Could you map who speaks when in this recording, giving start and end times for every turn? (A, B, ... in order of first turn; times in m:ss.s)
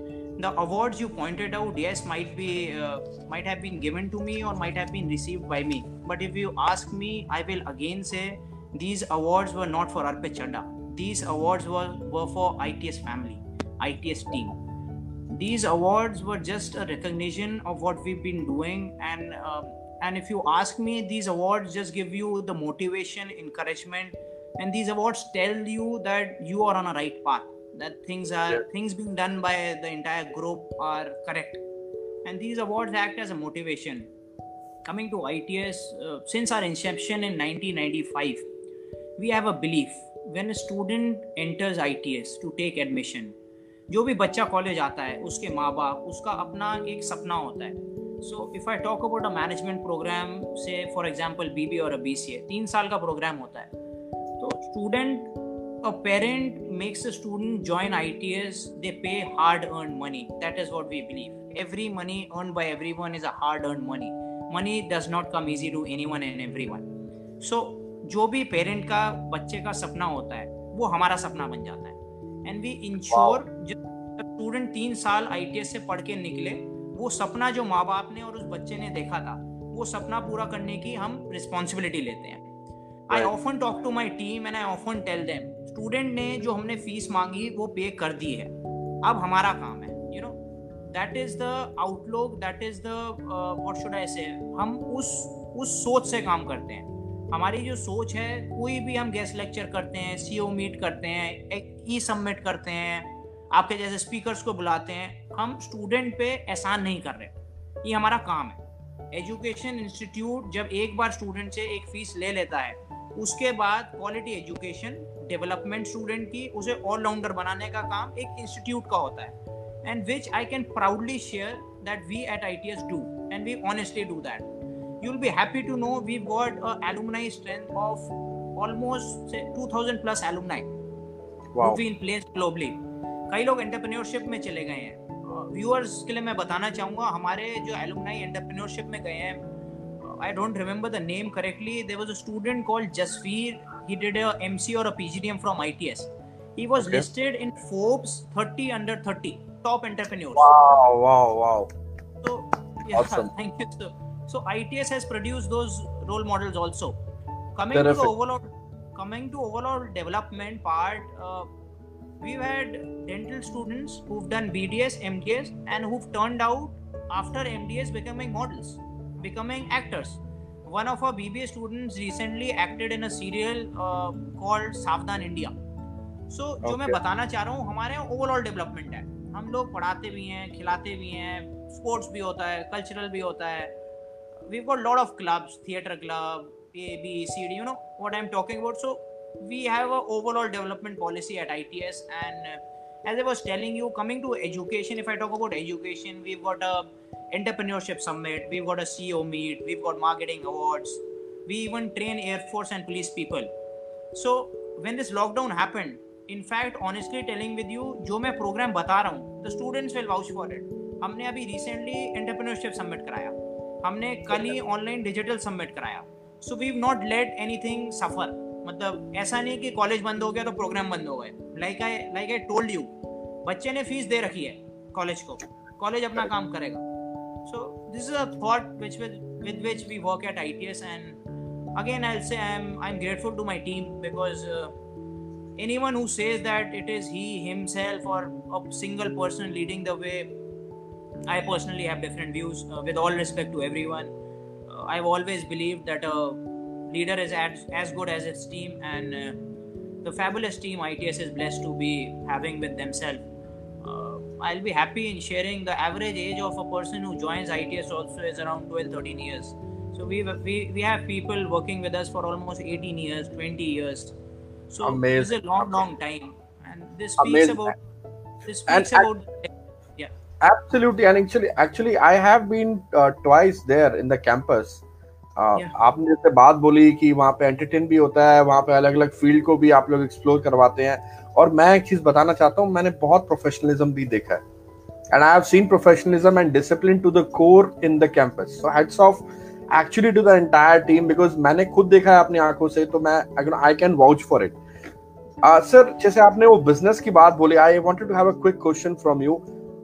0:00.4-0:14.6 A
0:15.3-0:31.6 A
0:32.2-0:34.1 A
0:34.9-0:38.5 A
0:39.2-0:43.4 A
0:43.9-0:53.7 A
0:54.4-0:55.3 A
0:55.8-1:06.9 A
1:07.4-1:22.4 A
1:13.1-1:13.4 B
1:23.1-1:30.4 A
1:30.9-1:48.6 A
1:49.1-2:04.5 A
2:05.0-2:10.7 A
2:11.5-2:11.8 B
2:11.6-2:12.8 A
2:13.3-2:19.4 A
2:20.0-2:30.5 A
2:26.8-2:27.0 B
2:30.4-2:31.7 B
2:32.2-2:37.0 A
2:33.0-2:33.3 B
2:37.6-2:41.5 A
2:37.7-2:38.1 B
2:42.2-2:55.6 A
2:56.3-3:03.7 A
2:56.6-2:57.0 B
3:04.5-3:23.5 A
3:24.1-3:42.9 A
3:43.4-3:46.8 A
3:47.5-3:51.2 A
3:51.8-3:54.8 A
3:55.6-4:00.3 A
4:01.3-4:04.1 A
4:04.7-4:09.4 A
4:10.0-4:13.2 A
4:13.8-4:24.2 A
4:24.7-4:27.8 A
4:24.8-4:25.8 B
4:27.2-4:27.6 B
4:28.5-4:30.1 A
4:28.7-4:29.1 B
4:30.4-4:34.8 B
4:35.4-4:44.4 B
4:45.1-4:54.6 B
4:55.4-4:59.4 B